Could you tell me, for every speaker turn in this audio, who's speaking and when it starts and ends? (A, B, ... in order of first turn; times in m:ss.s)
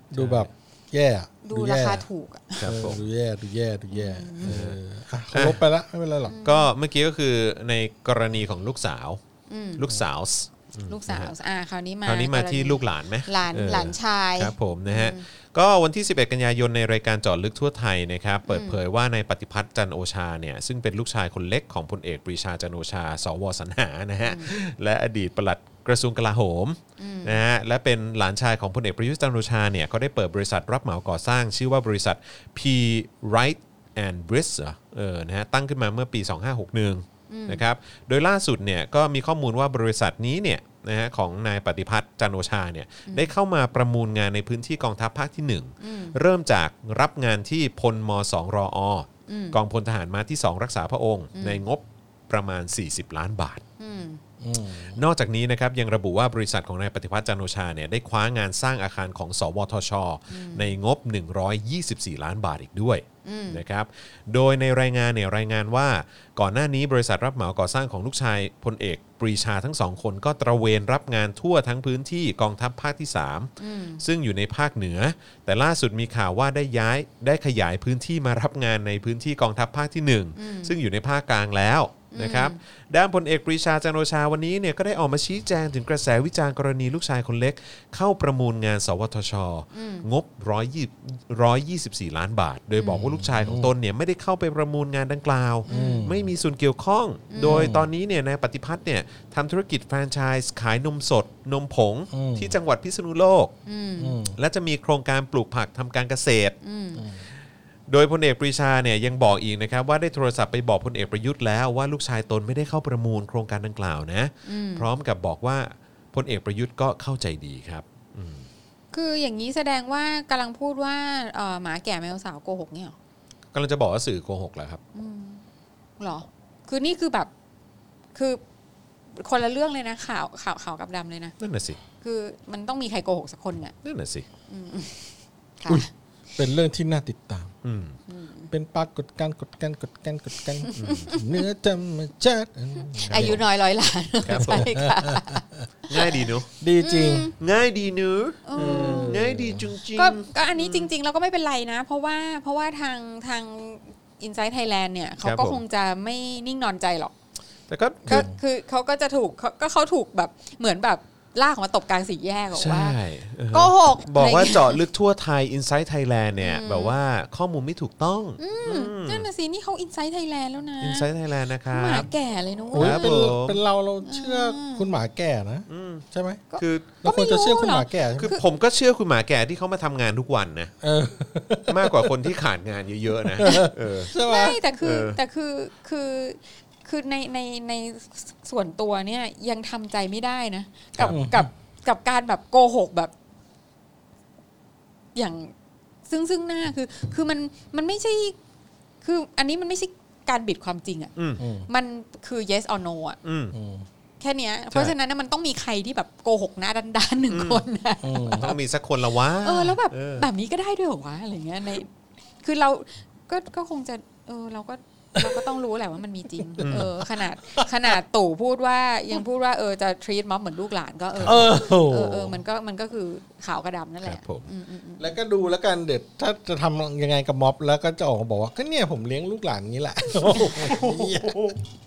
0:00.1-0:02.0 A
0:00.1-0:00.5 B
0:01.4-0:02.7 C
0:02.6-0:03.0 B
0:02.6-0:06.4 A
0:03.9-0:04.6 C
0:04.5-0:04.8 B
0:05.3-0:05.6 B
0:06.3-0:06.7 C
0:06.4-0:09.2 B
0:09.5-0:10.0 C
0:09.8-0:11.3 B
0:10.9-0:15.2 C
0:12.0-0:53.6 B
0:18.5-0:18.8 C
0:24.3-0:24.5 C
0:27.0-0:27.4 C
0:37.3-0:37.6 C
0:43.1-0:43.3 C
0:45.8-0:46.2 C
0:49.3-0:49.6 C
0:51.4-0:51.6 C
0:53.8-0:54.2 C
0:54.4-0:55.0 A
0:55.0-1:43.5 B
1:00.3-1:00.7 C
1:03.2-1:03.6 C
1:13.6-1:14.0 C
1:20.4-1:20.8 C
1:22.1-1:22.6 C
1:29.7-1:30.1 C
1:32.8-1:33.0 C
1:33.0-1:33.7 A
1:35.7-1:36.1 C
1:35.7-1:36.3 A
1:37.3-1:37.7 C
1:37.4-1:37.9 A
1:42.1-1:42.6 A
1:43.7-1:44.2 C
1:44.0-1:44.4 A
1:44.4-1:46.6 B
1:46.6-1:47.0 C
1:47.0-1:47.3 A
1:47.9-1:58.5 B
1:54.4-1:54.9 C
1:58.9-2:03.0 C
2:03.5-2:04.8 B
2:05.0-2:05.4 C
2:06.0-2:07.3 C
2:08.2-2:08.4 C
2:09.1-2:11.4 C
2:11.4-2:11.8 B
2:12.0-2:13.7 C
2:13.8-2:14.3 B
2:14.5-2:15.9 C
2:16.4-2:17.5 A
2:17.6-2:18.0 B
2:18.1-2:18.5 C
2:18.5-2:23.4 A
2:20.6-2:21.4 C
2:20.8-2:21.1 B
2:23.0-2:23.4 B
2:23.0-2:26.1 C
2:24.2-2:24.7 B
2:24.4-2:25.6 A
2:25.9-2:26.5 B
2:26.6-2:27.3 A
2:26.8-2:27.3 C
2:27.4-2:30.9 B
2:28.4-2:29.2 C
2:28.6-2:29.7 A
2:30.0-2:37.1 C
2:35.2-2:35.6 B
2:37.7-2:38.3 B
2:38.1-2:43.0 C
2:38.1-2:38.4 A
2:42.5-2:49.3 B
2:43.5-2:44.8 C
2:46.4-2:47.0 C
2:48.4-2:51.1 C
2:50.8-2:52.1 B
2:51.7-2:53.3 C
2:52.7-2:56.4 A
2:52.8-2:53.6 B
2:54.0-2:55.0 C
2:55.7-2:56.0 B
2:56.5-2:58.4 C
2:56.6-2:57.0 B
2:57.0-2:58.3 A
2:58.2-3:00.7 B
3:00.8-3:02.2 A
3:01.7-3:04.1 B
3:03.3-3:04.6 A
3:04.1-3:13.1 C
3:04.8-3:05.2 B
3:11.1-3:11.5 A
3:15.2-3:15.5 C
3:16.1-3:18.4 C
3:19.0-3:21.1 C
3:21.2-3:21.4 B
3:21.4-3:21.7 A
3:21.7-3:23.2 C
3:23.2-3:23.6 B
3:23.5-3:23.9 A
3:24.2-3:28.4 C
3:27.3-3:27.6 B
3:28.0-3:28.6 A
3:28.3-3:30.3 B
3:29.4-3:45.2 C
3:35.2-3:35.5 A
3:36.4-3:37.7 A
3:36.6-3:36.9 B
3:41.2-3:41.5 B
3:41.2-3:42.4 A
3:44.0-3:44.5 B
3:45.0-3:51.6 A
3:50.4-3:50.7 C